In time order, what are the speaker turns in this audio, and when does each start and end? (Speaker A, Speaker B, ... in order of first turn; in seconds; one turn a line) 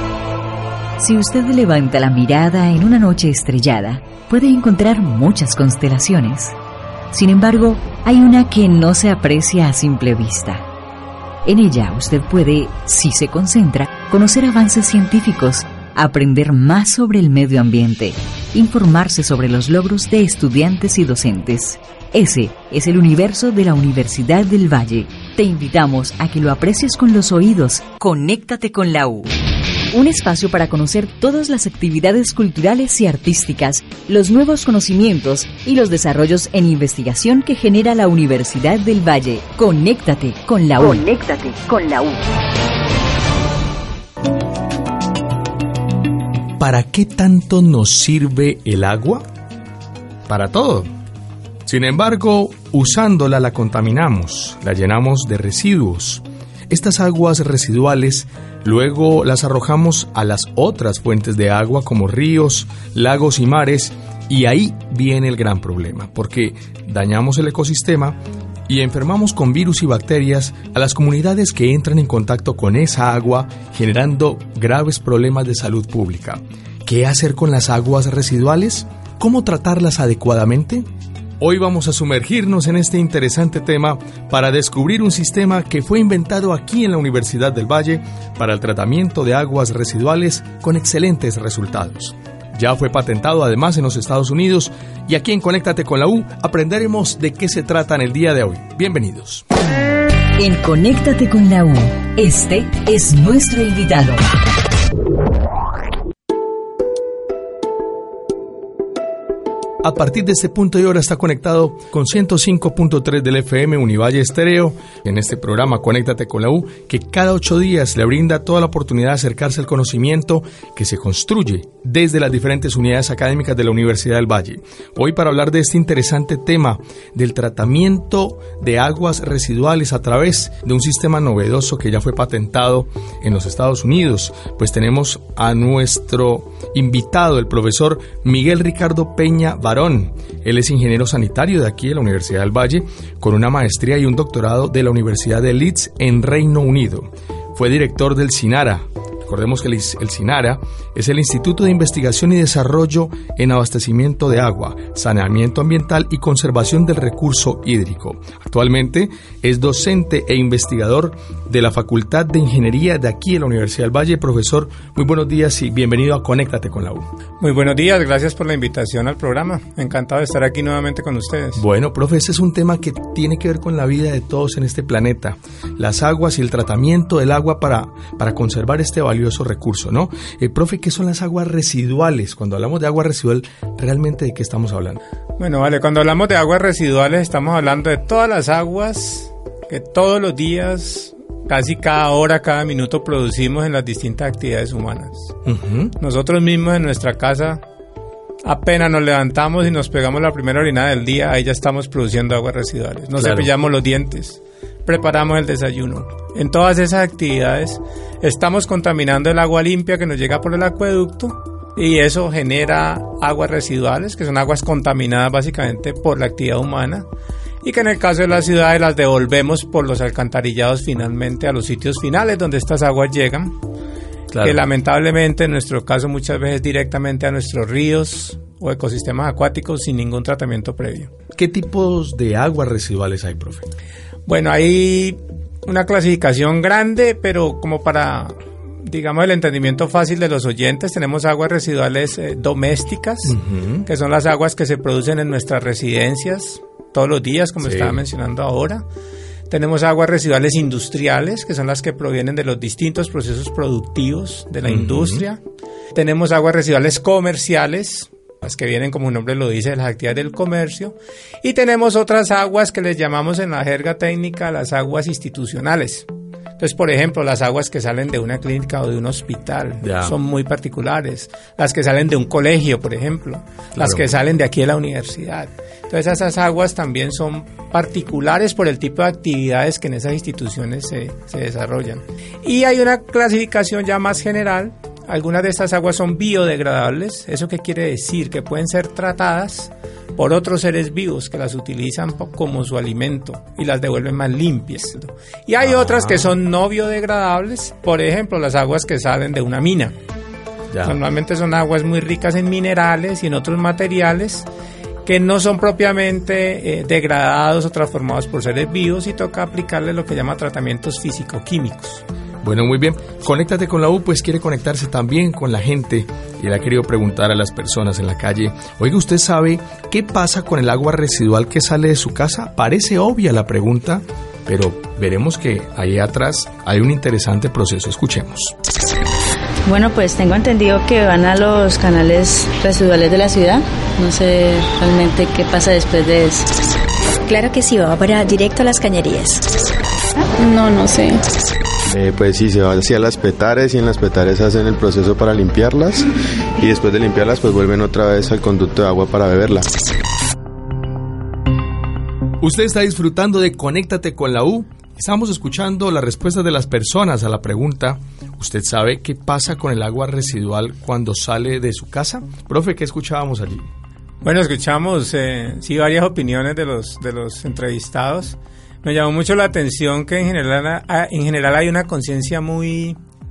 Speaker A: 1.0-6.5
Speaker A: 7.1-10.6
Speaker A: 11.4-29.3
Speaker A: 29.9-42.2
Speaker B: 46.6-49.2
Speaker B: 50.3-50.9
Speaker B: 51.6-80.8
Speaker B: 81.4-99.4
Speaker A: 100.4-104.2
Speaker B: 109.8-167.1
Speaker C: 167.4-171.6
Speaker B: 171.6-185.0
Speaker C: 185.4-195.3
Speaker B: 195.4-195.9
Speaker C: 196.0-197.6
Speaker C: 198.4-217.1
Speaker B: 203.2-203.5
Speaker C: 217.6-223.6
Speaker B: 224.3-224.6
Speaker C: 224.4-231.1
Speaker B: 231.3-233.7
Speaker C: 234.3-248.8
Speaker B: 243.2-243.9
Speaker B: 247.6-248.0
Speaker C: 249.5-255.4
Speaker B: 254.7-255.2
Speaker C: 255.9-266.1
Speaker C: 266.6-299.9
Speaker B: 269.8-270.1
Speaker B: 273.8-274.1
Speaker B: 295.6-296.3
Speaker B: 300.7-301.0
Speaker C: 300.8-304.5
Speaker C: 305.1-312.0
Speaker B: 312.4-328.5
Speaker D: 329.6-336.5
Speaker E: 337.2-339.4
Speaker D: 340.4-341.2
Speaker F: 341.9-349.7
Speaker B: 352.4-363.7
Speaker C: 364.2-373.0